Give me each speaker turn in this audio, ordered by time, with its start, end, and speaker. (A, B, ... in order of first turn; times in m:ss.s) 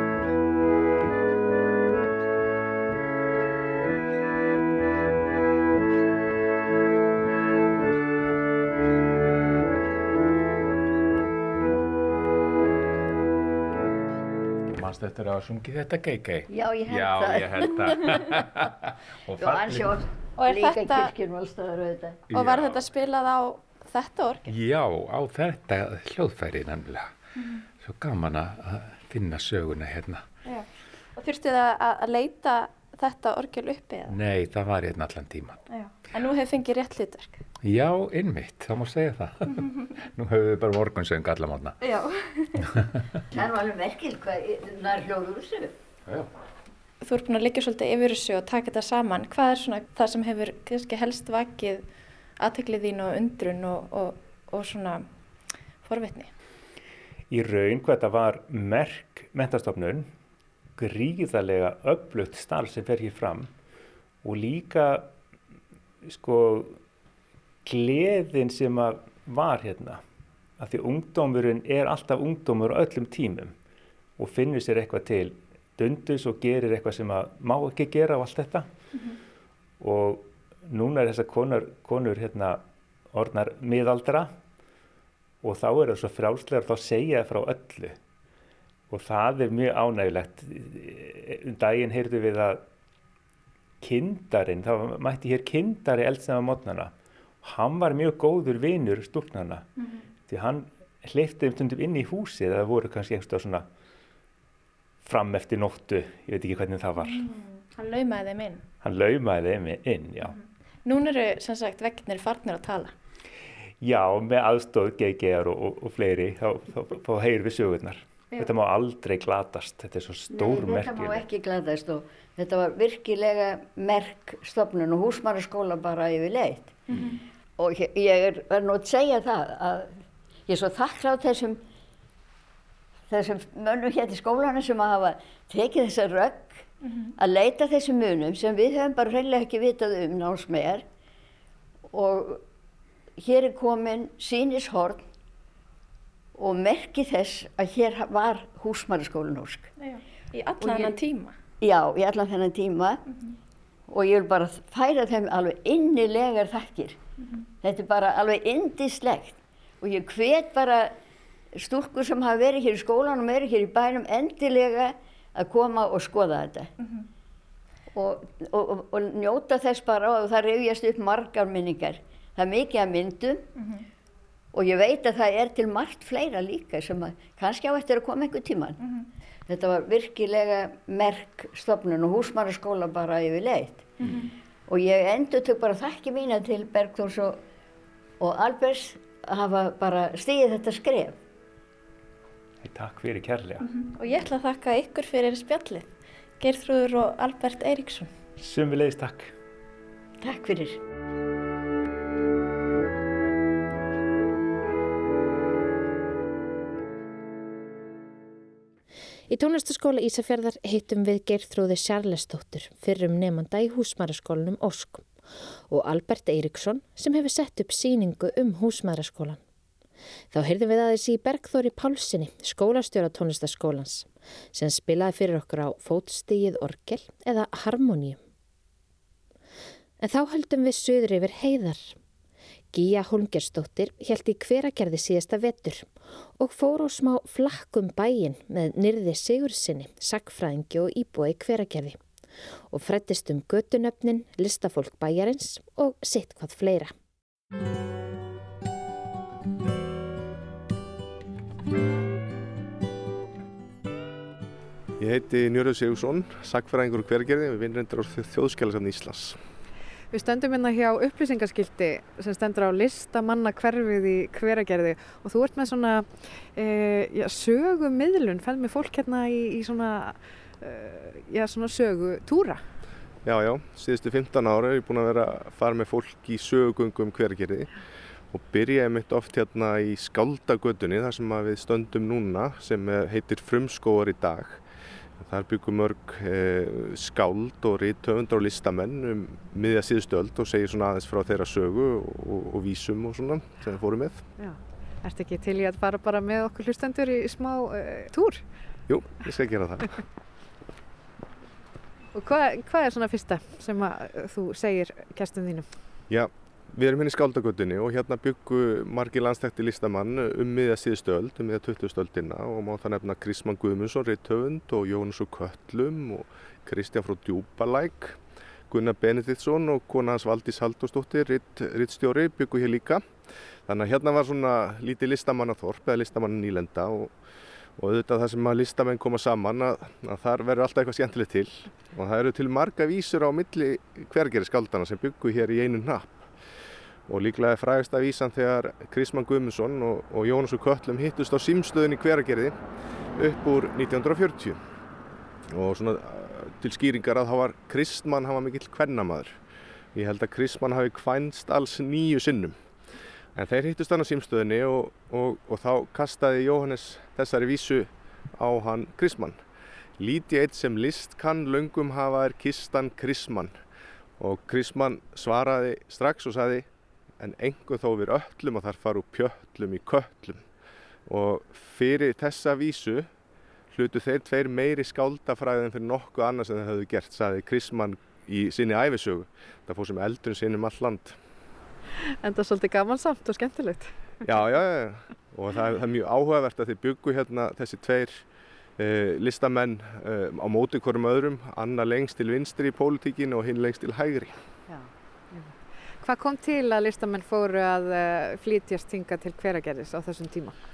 0:14.7-0:20.0 A
0:16.5-0:18.4 B
0:19.4-0:22.2 B
0:20.4-0:21.1 C
0:22.3-0:22.8 A
0:22.3-0:24.5 C
0:24.4-0:27.1 A
0:27.4-0:27.6 C
0:27.8-0:30.2 A
0:30.4-0:34.2 C
0:34.1-0:35.7 A
0:35.7-0:37.4 C
0:37.6-0:41.8 A
0:41.8-0:42.6 C
0:43.3-0:45.7 B
0:47.0-0:51.8 C
0:52.4-0:55.1 C
0:55.8-0:56.3 C
0:57.3-1:00.1 D
1:00.8-1:03.5 D
1:04.2-1:05.1 D
1:06.0-1:06.8 D
1:07.6-1:10.0 D
1:10.6-1:13.5 D
1:14.2-1:18.7 D
1:19.8-1:24.3 D
1:25.4-1:28.0 D
1:28.9-1:32.6 D
1:33.8-1:39.7 D
1:40.3-1:43.7 D
1:45.0-1:47.2 D
1:47.0-1:48.6 C
1:48.8-1:50.3 D
1:50.2-1:52.9 C
1:53.8-2:01.2 D
2:00.3-2:06.8 B
2:06.9-2:07.2 C
2:07.6-2:09.9 B
2:10.5-2:11.6 B
2:13.1-2:16.6 B
2:17.2-2:20.8 B
2:21.9-2:22.4 B
2:23.2-2:25.0 B
2:26.4-2:29.7 B
2:29.8-2:31.3 C
2:30.6-2:30.9 B
2:31.6-2:33.0 B
2:33.9-2:37.0 B
2:37.6-2:40.9 B
2:41.5-2:46.7 B
2:47.9-2:53.4 B
2:53.6-2:53.8 C
2:54.5-2:58.8 B
2:58.8-2:59.1 C
2:59.5-3:03.9 B
3:04.0-3:04.3 C
3:04.7-3:07.4 B
3:08.2-3:11.2 B
3:12.6-3:13.6 D
3:13.6-3:15.9 C
3:16.4-3:18.1 C
3:18.4-3:19.3 D
3:20.2-3:20.8 B
3:29.3-3:35.0 E
3:35.7-3:39.4 E
3:40.3-3:48.2 E
3:50.0-3:52.0 E
3:52.7-4:02.0 E
4:02.7-4:06.9 E
4:15.0-4:19.4 F
4:20.1-4:32.6 G
4:33.2-4:37.7 F
4:38.3-4:44.6 F
4:45.2-4:54.2 F
4:54.4-4:58.4 G
4:58.9-5:00.0 F
5:02.1-5:05.7 G
5:06.1-5:18.2 F
5:18.7-5:23.1 F
5:23.7-5:27.1 F
5:27.8-5:36.3 F
5:37.1-5:42.6 F
5:43.2-5:44.6 F
5:45.5-5:49.4 F
5:49.9-5:52.6 F
5:53.3-5:59.4 F
6:00.0-6:03.5 F
6:04.2-6:06.6 F
6:07.2-6:10.4 F
6:11.1-6:13.1 F
6:13.7-6:21.2 F
6:22.0-6:23.9 G
6:24.2-6:28.2 F
6:28.8-6:34.3 F
6:34.7-6:40.6 G